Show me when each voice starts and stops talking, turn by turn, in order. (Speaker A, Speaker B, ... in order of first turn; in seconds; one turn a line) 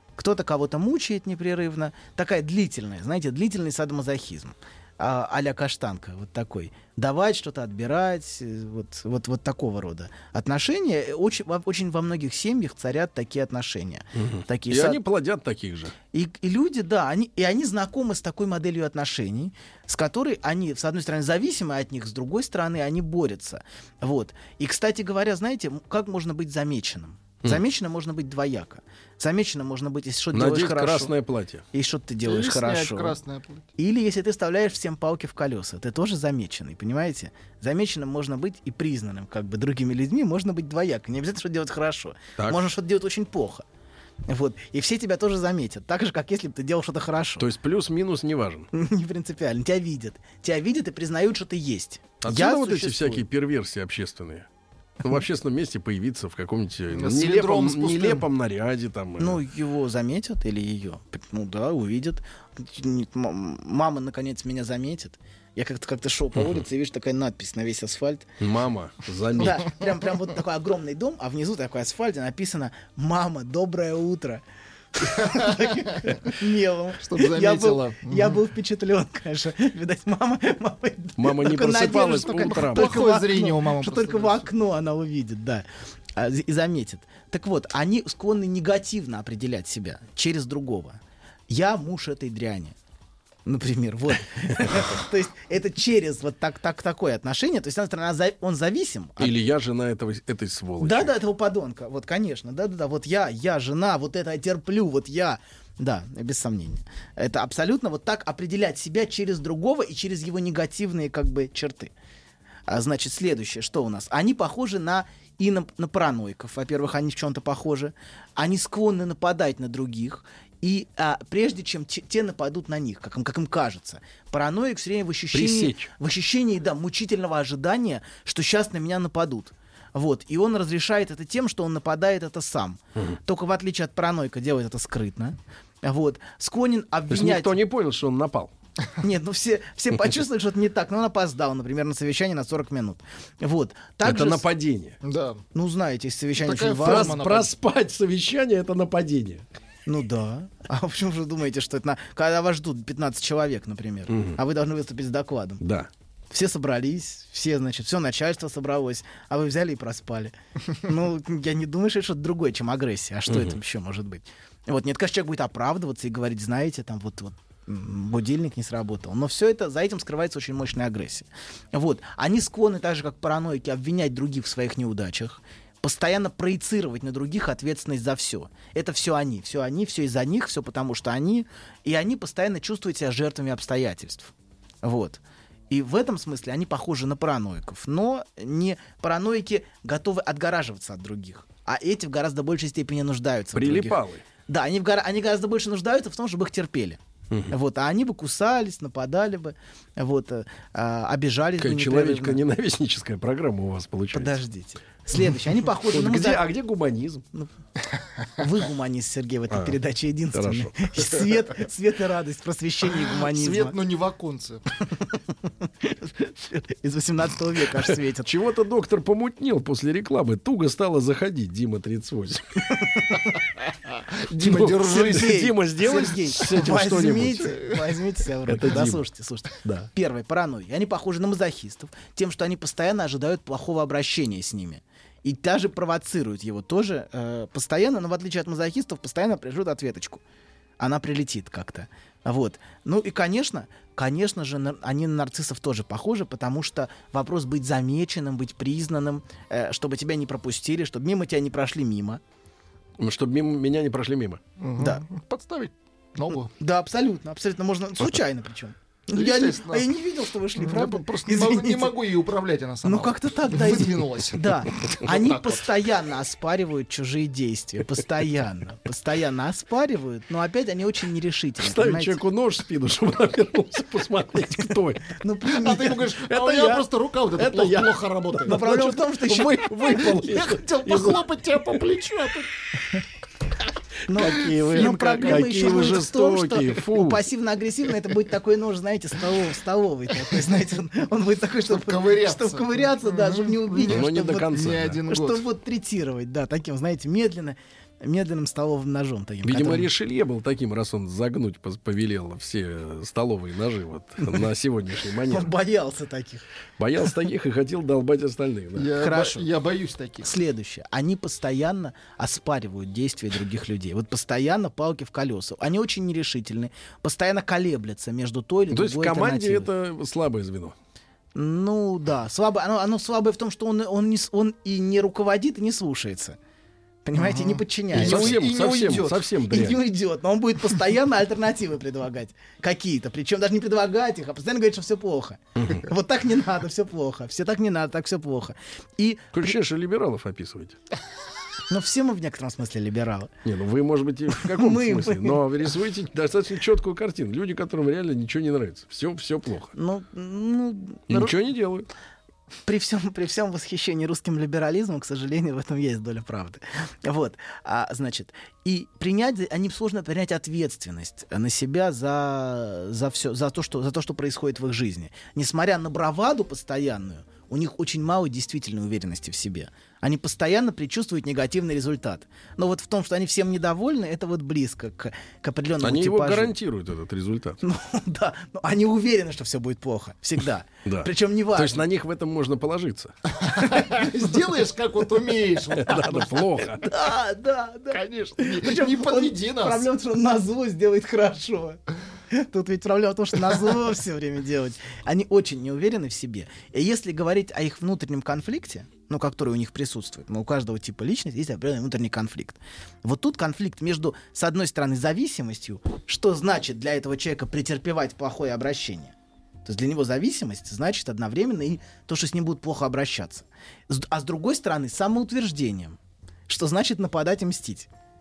Speaker A: 0.2-15.0
Speaker B: 14.2-15.9
Speaker A: 16.1-31.1
Speaker B: 30.3-31.6
Speaker A: 31.7-33.2
Speaker C: 32.2-33.7
Speaker A: 33.8-43.6
Speaker A: 44.3-47.5
Speaker B: 47.4-48.7
Speaker A: 48.7-53.2
Speaker B: 52.2-54.5
Speaker B: 55.0-59.4
Speaker C: 56.9-58.2
Speaker A: 59.2-68.3
Speaker B: 66.4-66.6
Speaker B: 68.4-69.8
Speaker A: 69.4-74.4
Speaker A: 75.0-85.7
Speaker C: 77.0-78.4
Speaker B: 81.2-83.0
Speaker C: 82.3-84.5
Speaker A: 86.2-92.8
Speaker A: 93.5-99.4
Speaker B: 99.2-101.1
Speaker A: 100.8-111.9
Speaker A: 112.7-137.6
Speaker B: 125.3-125.9
Speaker B: 137.1-138.5
Speaker A: 139.0-144.5
Speaker B: 144.0-145.0
Speaker C: 145.0-145.4
Speaker A: 145.5-147.2
Speaker C: 146.4-147.5
Speaker B: 146.8-149.4
Speaker A: 149.9-155.6
Speaker B: 154.1-154.4
Speaker B: 155.6-155.9
Speaker A: 156.3-197.0
Speaker B: 163.3-163.6
Speaker B: 193.5-194.2
Speaker A: 197.5-202.4
Speaker B: 201.6-204.4
Speaker A: 204.1-206.5
Speaker B: 205.9-207.2
Speaker A: 208.4-213.8
Speaker B: 209.5-209.8
Speaker B: 210.3-211.1
Speaker C: 213.1-214.6
Speaker A: 215.8-218.3
Speaker B: 217.8-222.6
Speaker A: 222.8-223.2
Speaker B: 224.3-227.7
Speaker C: 224.3-225.4
Speaker A: 224.8-240.2
Speaker B: 228.5-229.9
Speaker A: 240.8-252.2
Speaker B: 253.0-254.4
Speaker C: 254.6-256.5
Speaker A: 254.8-255.0
Speaker A: 256.6-262.0
Speaker C: 259.1-259.9
Speaker C: 260.6-265.0
Speaker A: 262.8-272.2
Speaker B: 271.6-275.2
Speaker A: 275.1-276.1
Speaker C: 275.5-278.6
Speaker B: 276.3-281.2
Speaker A: 278.5-279.7
Speaker C: 279.8-282.5
Speaker A: 284.1-299.9
Speaker B: 284.1-287.2
Speaker C: 284.6-285.7
Speaker C: 291.7-295.4
Speaker B: 293.9-295.0
Speaker B: 299.4-305.5
Speaker A: 305.3-306.4
Speaker B: 306.8-308.9
Speaker C: 308.8-310.3
Speaker A: 309.0-309.5
Speaker A: 310.2-319.7
Speaker B: 318.7-320.8
Speaker A: 321.4-326.4
Speaker A: 327.1-328.4
Speaker C: 327.2-329.2
Speaker B: 327.9-329.8
Speaker A: 329.5-339.6
Speaker B: 335.6-335.9
Speaker B: 339.3-340.8
Speaker A: 341.7-343.3
Speaker B: 343.4-349.7
Speaker A: 344.4-345.4
Speaker A: 349.8-351.4
Speaker B: 351.1-351.9
Speaker A: 352.7-376.6
Speaker B: 375.8-377.6
Speaker A: 377.6-381.8
Speaker B: 380.9-383.1
Speaker C: 383.4-386.5
Speaker B: 385.8-386.9
Speaker A: 386.9-391.8
Speaker C: 387.9-389.9
Speaker A: 392.3-409.1
Speaker A: 409.6-416.0
Speaker A: 416.5-417.9